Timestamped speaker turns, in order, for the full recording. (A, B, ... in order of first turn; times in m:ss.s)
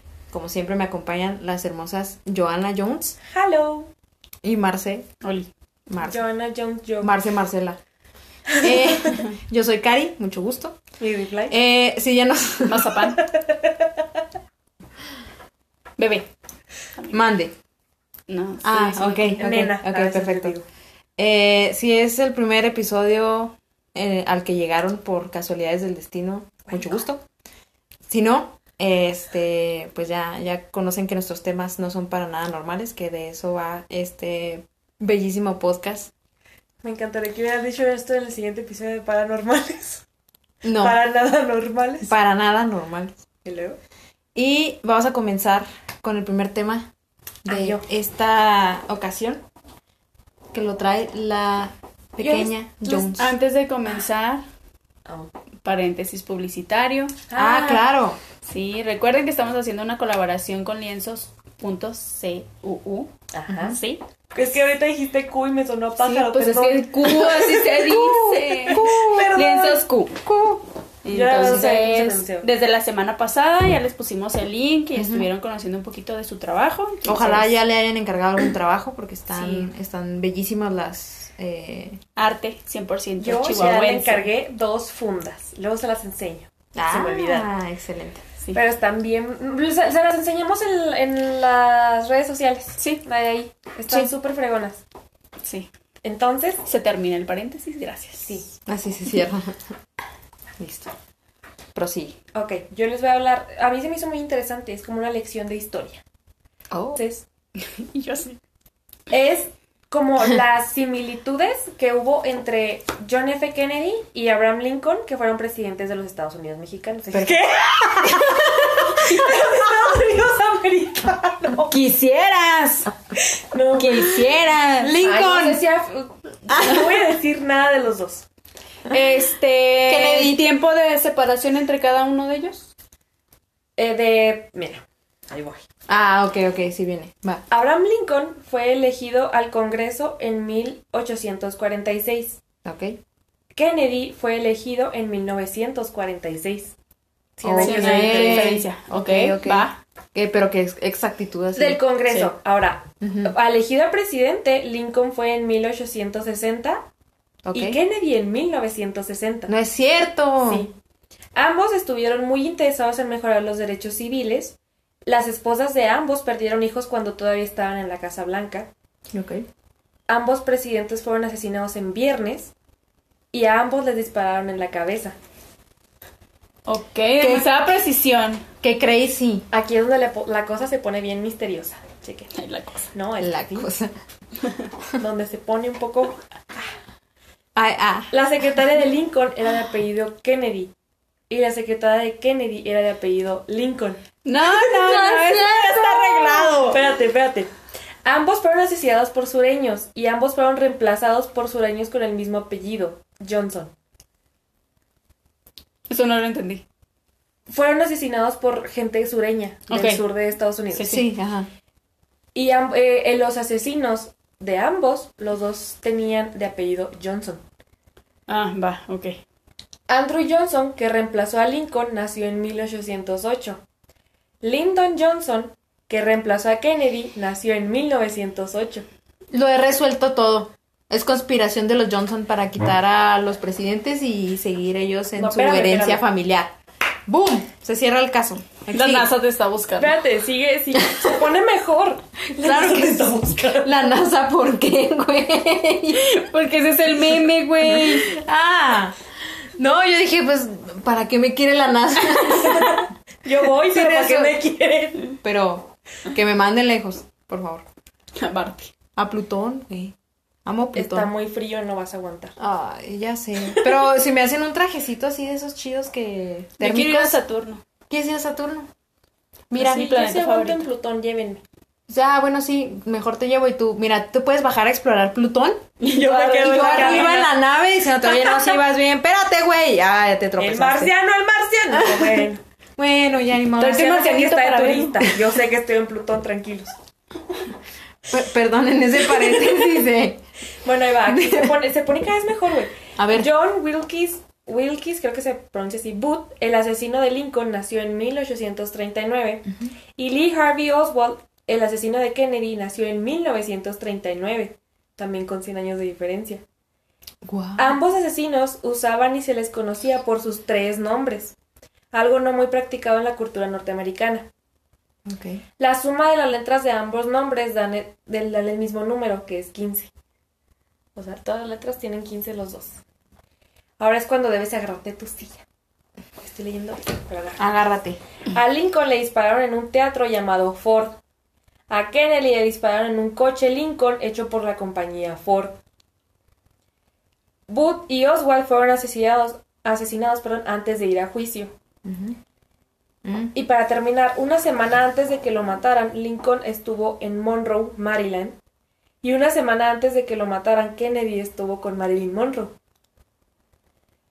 0:00.3-0:03.2 A
0:03.2-0:03.9 B
0:04.4-0:05.1 A
0:05.2-0:05.5 C
0:05.9-0:06.2 A
0:06.0-0:07.2 B
0:07.0-0:07.8 A
0:08.5-0:09.2 B
0:08.6-0:10.8 A
0:11.0-0:11.5 B
0:11.5-0:13.0 A
0:12.6-0:13.2 C
0:13.1-0:13.9 B
0:16.0-0:16.3 C
0:17.1-0:17.6 A
0:18.3-0:19.4 C
0:18.6-0:20.6 A
0:19.4-0:20.6 B
0:21.2-0:27.2 A
0:26.7-0:27.0 B
0:28.1-0:36.1 A
0:36.8-0:40.0 B
0:40.6-0:41.0 A
0:40.8-0:42.1 B
0:42.0-0:43.2 A
0:43.4-0:43.8 B
0:44.4-0:46.9 A
0:47.4-0:49.4 A
0:47.5-0:47.9 B
0:50.5-0:53.3 A
0:52.2-0:53.3 B
0:53.2-0:54.4 C
0:55.1-0:55.3 B
0:55.6-0:57.2 C
0:57.3-0:57.9 B
0:57.4-0:58.2 A
0:58.4-1:03.1 C
1:03.3-1:03.8 B
1:03.5-1:03.8 A
1:03.7-1:04.0 C
1:04.3-1:08.0 B
1:06.0-1:10.2 C
1:07.8-1:09.4 A
1:08.7-1:09.8 B
1:10.2-1:10.6 A
1:11.0-1:17.5 C
1:11.1-1:12.5 B
1:11.4-1:11.7 A
1:15.0-1:15.3 A
1:17.1-1:22.0 A
1:19.3-1:19.7 C
1:22.2-1:24.3 C
1:23.2-1:27.5 B
1:26.8-1:28.2 A
1:28.5-1:34.8 B
1:35.4-1:35.7 C
1:36.0-1:36.6 B
1:36.7-1:38.4 C
1:38.2-1:38.5 B
1:38.7-1:39.6 A
1:40.6-1:40.9 A
1:41.8-1:42.2 A
1:42.3-1:46.0 B
1:46.7-1:47.0 A
1:47.0-1:47.2 B
1:47.6-1:48.4 C
1:49.1-2:01.8 B
1:57.1-1:59.4 A
2:01.7-2:02.9 C
2:03.5-2:04.2 B
2:03.8-2:05.0 C
2:04.8-2:05.6 A
2:05.0-2:08.3 B
2:06.5-2:07.0 A
2:08.9-2:12.7 C
2:09.9-2:10.4 A
2:13.8-2:15.6 B
2:15.9-2:17.4 A
2:17.5-2:22.4 B
2:22.6-2:23.0 A
2:23.5-2:26.7 B
2:27.4-2:28.6 B
2:27.4-2:31.8 A
2:27.6-2:29.8 C
2:31.6-2:36.9 B
2:33.0-2:33.3 A
2:37.4-2:37.8 A
2:37.5-2:39.5 B
2:39.5-2:40.7 A
2:40.4-2:40.7 B
2:41.4-2:48.7 B
2:49.1-2:49.4 A
2:50.1-2:52.5 B
2:53.3-2:55.2 B
2:56.7-2:58.5 C
2:57.2-2:57.5 A
2:58.6-2:59.5 A
2:59.5-3:02.3 B
3:02.3-3:02.9 C
3:02.9-3:03.7 B
3:03.2-3:03.9 A
3:05.0-3:06.2 B
3:07.6-3:08.1 A
3:08.1-3:10.7 B
3:11.3-3:14.0 B
3:14.2-3:16.8 C
3:14.6-3:16.8 A
3:16.6-3:17.5 B
3:18.0-3:23.7 B
3:25.9-3:26.6 C
3:27.5-3:31.0 B
3:29.7-3:30.0 C
3:30.7-3:31.0 C
3:30.9-3:31.5 A
3:32.4-3:37.4 B
3:38.3-3:39.2 C
3:39.9-3:43.6 B
3:44.4-3:48.8 B
3:49.3-3:56.5 A
3:55.2-3:56.0 B
3:57.1-3:59.1 A
3:58.7-4:00.0 C
3:59.8-4:03.9 B
4:02.4-4:06.2 A
4:05.9-4:08.2 C
4:07.6-4:09.0 A
4:09.6-4:12.9 A
4:12.3-4:15.1 B
4:13.6-4:14.4 A
4:15.2-4:17.7 A
4:18.2-4:18.7 C
4:19.0-4:20.0 A
4:20.5-4:21.1 A
4:20.7-4:22.4 B
4:22.4-4:27.2 A
4:26.6-4:27.6 C
4:27.9-4:28.7 A
4:29.5-4:29.8 A
4:29.5-4:30.7 C
4:29.6-4:31.4 B
4:31.9-4:35.7 A
4:35.8-4:37.2 C
4:35.8-4:37.3 B
4:36.4-4:41.0 A
4:40.4-4:42.4 B
4:41.7-4:44.0 A
4:43.6-4:45.1 C
4:43.6-4:46.7 B
4:48.1-4:50.2 A
4:50.6-5:06.4 B
4:51.1-4:51.5 A
4:53.0-4:53.3 A
5:07.2-5:07.8 A
5:07.6-5:11.4 B
5:11.9-5:14.3 B
5:15.1-5:15.4 A
5:15.6-5:19.9 B
5:21.0-5:22.8 B
5:23.8-5:25.5 B
5:26.2-5:27.4 B
5:27.4-5:28.0 A
5:28.3-5:31.0 B
5:31.7-5:35.6 B
5:37.5-5:41.6 B
5:41.8-5:42.2 A
5:43.0-5:43.3 A
5:43.3-5:48.4 B
5:49.0-5:52.6 B